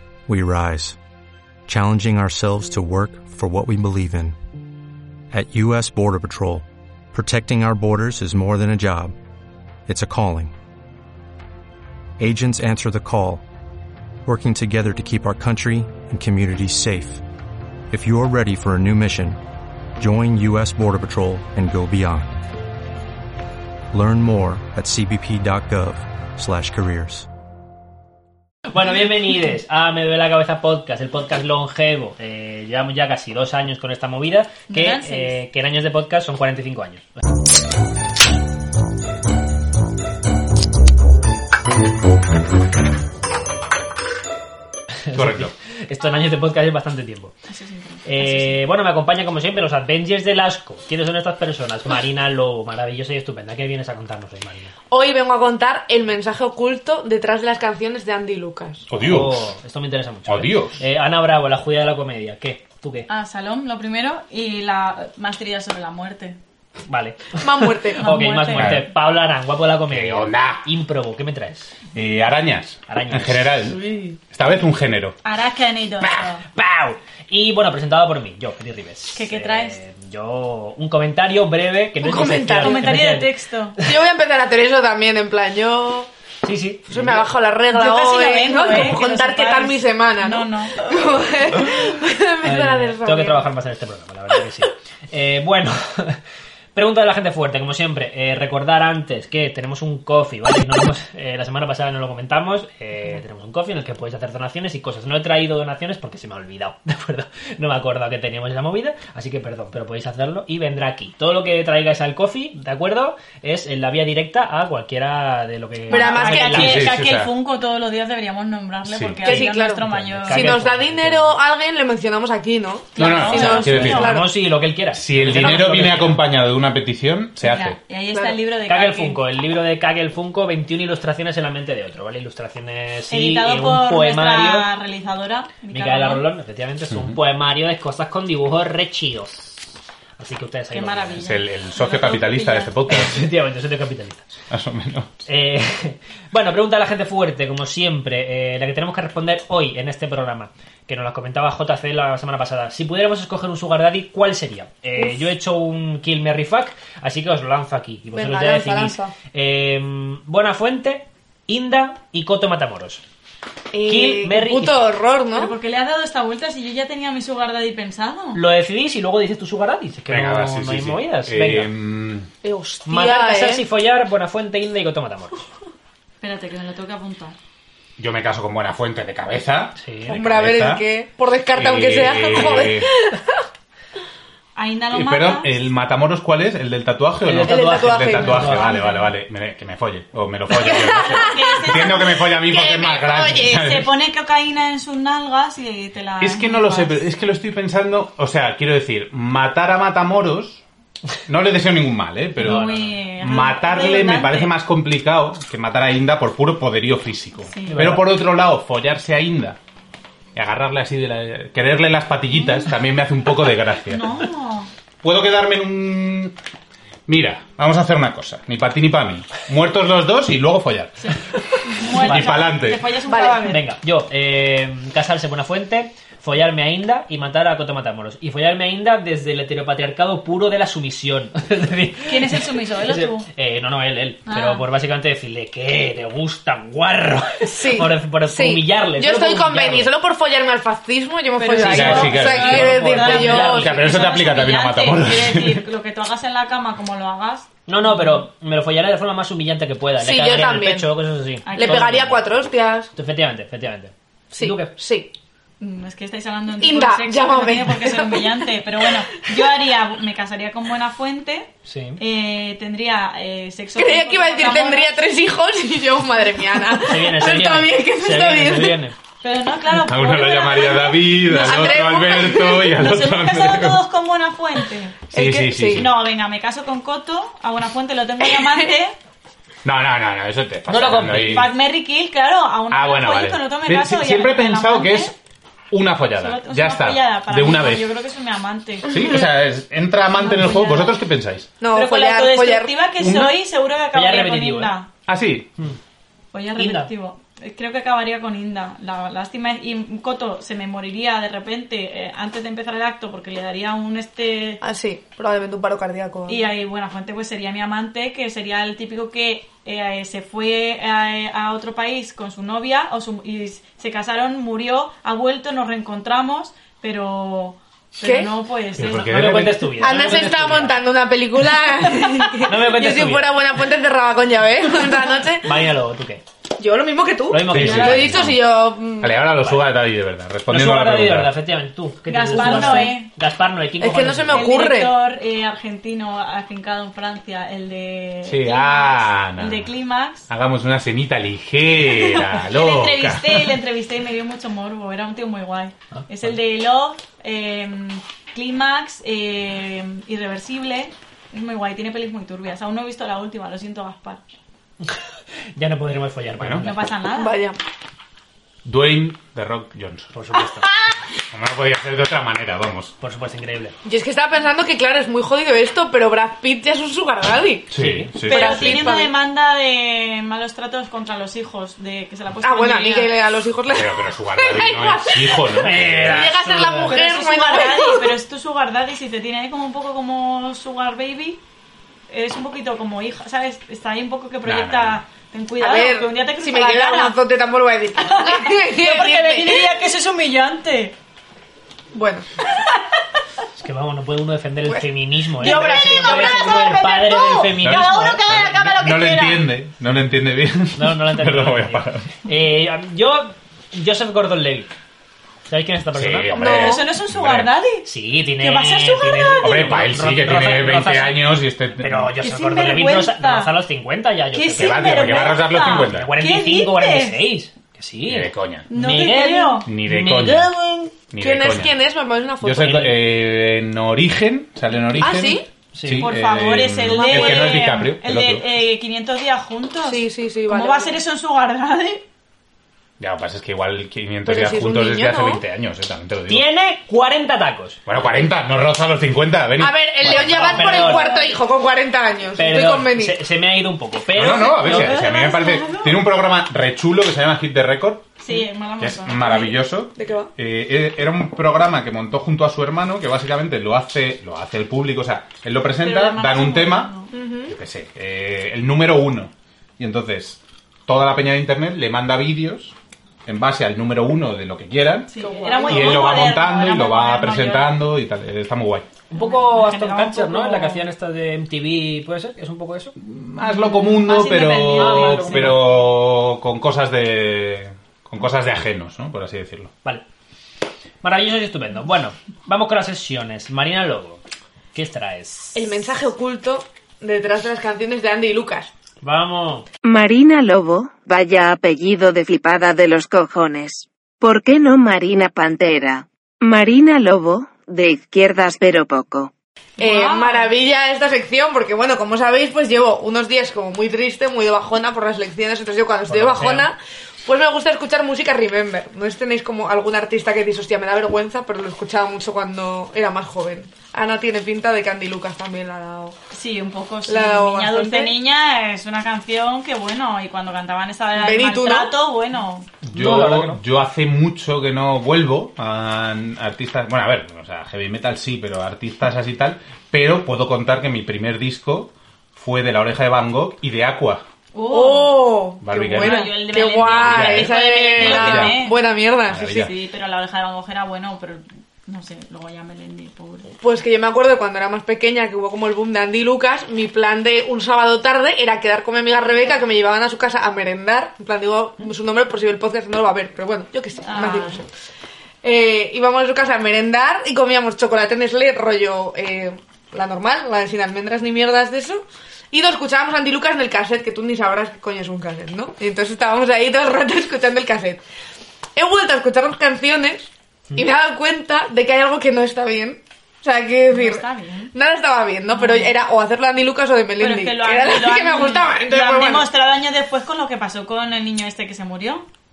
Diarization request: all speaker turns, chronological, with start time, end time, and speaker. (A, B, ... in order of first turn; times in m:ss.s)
0:00.3-0:01.0 A
0:01.7-0:04.3 A
0:05.3-0:09.1 A
0:09.8-0:10.5 A
0:12.2-0:13.4 A
0:14.2-0:17.2 A
0:17.9-0:19.4 A
0:20.0-0:22.4 A
0:23.9-0:27.3 A
0:28.7-0:37.2 B
0:34.7-0:35.4 C
0:45.1-0:47.3 B
0:45.1-0:45.5 D
0:47.5-0:48.6 C
0:48.0-0:54.7 B
0:54.9-0:58.8 E
0:58.9-0:59.4 D
0:59.0-1:03.1 B
1:00.3-1:00.8 D
1:03.1-1:06.4 C
1:06.9-1:11.7 B
1:07.4-1:08.0 E
1:08.0-1:08.8 C
1:08.5-1:08.9 D
1:09.9-1:10.6 D
1:11.9-1:13.8 D
1:12.9-1:13.6 B
1:13.8-1:14.2 E
1:14.3-1:15.2 D
1:15.2-1:16.4 C
1:16.0-1:23.3 B
1:19.1-1:19.8 C
1:22.0-1:22.9 E
1:22.6-1:23.8 C
1:23.8-1:26.1 E
1:26.4-1:27.3 B
1:26.9-1:33.5 E
1:27.7-1:31.1 C
1:32.4-1:36.2 B
1:36.7-1:56.9 B
1:55.9-1:56.8 E
1:55.9-2:00.6 C
1:56.5-1:57.3 D
1:58.9-1:59.4 D
1:59.2-2:04.3 E
1:59.2-2:01.3 B
2:03.0-2:04.1 C
2:03.0-2:04.1 D
2:03.5-2:06.2 B
2:04.9-2:07.8 D
2:07.4-2:09.2 C
2:08.7-2:14.7 B
2:13.1-2:16.2 C
2:15.7-2:21.3 B
2:16.9-2:17.2 D
2:20.7-2:22.7 C
2:21.2-2:23.2 D
2:22.9-2:24.3 B
2:24.5-2:25.2 D
2:25.2-2:43.0 B
2:38.1-2:39.1 E
2:43.7-2:45.5 E
2:43.8-2:44.8 B
2:45.3-2:48.4 C
2:48.3-2:51.7 B
2:50.1-2:52.3 D
2:52.4-2:53.6 E
2:52.8-2:55.4 B
2:56.2-2:57.4 C
2:58.0-3:00.8 D
2:59.8-3:00.2 B
3:00.1-3:03.4 E
3:01.5-3:02.9 D
3:04.6-3:05.6 C
3:04.9-3:13.9 D
3:07.2-3:08.8 B
3:07.4-3:08.7 E
3:08.6-3:09.1 C
3:10.5-3:13.6 E
3:11.2-3:12.4 C
3:13.4-3:17.0 C
3:16.2-3:20.6 D
3:21.3-3:29.6 D
3:22.4-3:22.9 B
3:22.4-3:24.5 C
3:27.5-3:27.9 C
3:27.6-3:28.1 B
3:30.3-3:34.1 D
3:32.3-3:32.7 C
3:33.9-3:34.7 C
3:35.0-3:36.3 D
3:37.1-3:41.1 D
3:41.0-3:43.6 C
3:41.8-3:42.4 B
3:41.9-3:42.9 D
3:43.0-3:43.5 E
3:43.4-3:59.9 B
3:52.1-3:53.3 C
3:54.2-3:54.6 C
3:57.5-4:03.8 E
4:01.4-4:08.2 C
4:01.6-4:05.6 D
4:01.6-4:03.8 B
4:07.7-4:12.2 B
4:10.0-4:11.0 E
4:11.4-4:12.0 C
4:11.5-4:12.9 E
4:12.9-4:14.7 B
4:14.3-4:15.1 E
4:15.6-4:24.9 C
4:16.6-4:18.9 E
4:21.6-4:22.0 B
4:23.8-4:28.8 E
4:26.8-4:29.0 B
4:29.2-4:35.1 C
4:29.7-4:33.8 D
4:31.4-4:32.7 E
4:35.1-4:35.9 D
4:35.1-4:35.9 E
4:35.7-4:38.9 C
4:38.3-4:38.6 E
4:39.6-4:41.6 D
4:40.7-4:41.5 B
4:41.3-4:45.1 C
4:42.7-4:45.1 D
4:45.7-4:47.8 D
4:46.2-4:49.2 C
4:48.8-4:51.6 D
4:50.2-4:51.0 C
4:51.6-4:52.7 E
4:51.7-4:54.9 C
4:53.0-4:53.3 D
4:53.9-4:54.7 B
4:55.1-4:55.5 D
4:56.3-5:04.6 C
4:56.6-4:56.9 B
5:04.6-5:06.5 E
5:06.3-5:19.0 C
5:18.0-5:18.3 E
5:18.8-5:19.7 D
5:18.8-5:20.8 B
5:19.8-5:25.5 E
5:22.4-5:23.3 B
5:25.4-5:26.2 B
5:26.6-5:29.2 E
5:27.3-5:28.3 B
5:27.5-5:28.5 D
5:27.6-5:28.3 C
5:29.0-5:31.3 D
5:29.4-5:29.7 B
5:30.5-5:34.5 B
5:32.1-5:33.1 C
5:32.3-5:33.0 E
5:33.8-5:34.9 E
5:34.3-5:40.3 C
5:38.2-5:39.7 D
5:40.3-5:43.6 D
5:41.9-5:54.2 C
5:45.9-5:46.3 B
5:55.6-5:56.9 B
5:56.4-5:56.7 D
5:56.6-5:57.4 C
5:57.1-5:57.6 E
5:58.6-6:00.1 D
6:00.1-6:00.6 B
6:01.3-6:02.9 D
6:03.0-6:03.7 B
6:03.8-6:07.7 E
6:07.7-6:09.0 D
6:07.7-6:08.1 B
6:08.3-6:13.1 C
6:08.3-6:09.1 E
6:12.4-6:18.1 E
6:13.6-6:16.3 D
6:15.6-6:17.0 B
6:16.8-6:21.4 C
6:22.1-6:27.2 C
6:24.4-6:25.0 D
6:25.6-6:29.6 E
6:28.0-6:31.0 C
6:31.9-6:32.8 E
6:33.6-6:38.2 B
6:34.6-6:36.8 E
6:35.4-6:39.4 C
6:37.6-6:42.1 D
6:40.8-6:44.7 B
6:45.5-6:46.4 B
6:45.9-6:47.5 D
6:46.4-6:46.8 E
6:46.4-6:47.9 C
6:47.8-6:55.1 B
6:48.4-6:49.8 C
6:49.4-6:52.1 D
6:52.2-6:53.5 C
6:54.3-6:57.2 C
6:54.5-6:56.1 D
6:55.7-7:00.9 B
6:58.1-6:58.7 D
6:58.7-6:59.7 C
6:59.6-7:00.5 D
7:01.1-7:01.7 D
7:01.2-7:02.9 E
7:02.4-7:08.4 D
7:02.6-7:02.9 B
7:05.0-7:05.4 E
7:05.7-7:06.1 B
7:06.0-7:12.0 C
7:06.9-7:07.7 E
7:09.8-7:11.0 E
7:13.0-7:16.4 D
7:14.2-7:15.4 E
7:16.3-7:17.8 B
7:17.8-7:20.9 D
7:19.6-7:23.2 E
7:20.0-7:21.2 B
7:20.2-7:21.3 C
7:22.4-7:25.0 B
7:24.1-7:28.1 D
7:24.6-7:26.0 C
7:28.2-7:29.5 C
7:28.8-7:42.7 D
7:29.2-7:30.3 E
7:35.8-7:37.1 C
7:37.1-7:37.6 E
7:43.2-7:48.9 D
7:45.1-7:47.8 C
7:45.1-7:46.3 E
7:49.1-7:52.9 B
7:49.1-7:50.9 C
7:53.0-7:59.7 D
7:53.4-7:55.5 C
7:54.7-7:55.6 B
8:01.0-8:04.2 B
8:04.7-8:05.6 B
8:05.5-8:08.7 E
8:09.0-8:09.7 B
8:09.8-8:19.3 F
8:19.8-8:20.5 C
8:19.8-8:36.2 E
8:26.1-8:26.7 B
8:36.3-8:42.7 C
8:37.1-8:38.1 E
8:41.2-8:41.9 E
8:42.8-8:43.6 B
8:42.9-8:54.2 D
8:54.5-8:55.3 C
8:54.7-8:59.6 E
8:55.6-8:58.6 D
8:55.9-8:58.8 C
8:59.3-8:59.7 D
8:59.4-9:03.5 C
9:03.6-9:14.7 E
9:14.0-9:14.6 C
9:15.4-9:28.0 E
9:28.8-9:39.4 E
9:33.9-9:34.7 C
9:35.5-9:35.9 C
9:37.2-9:42.3 C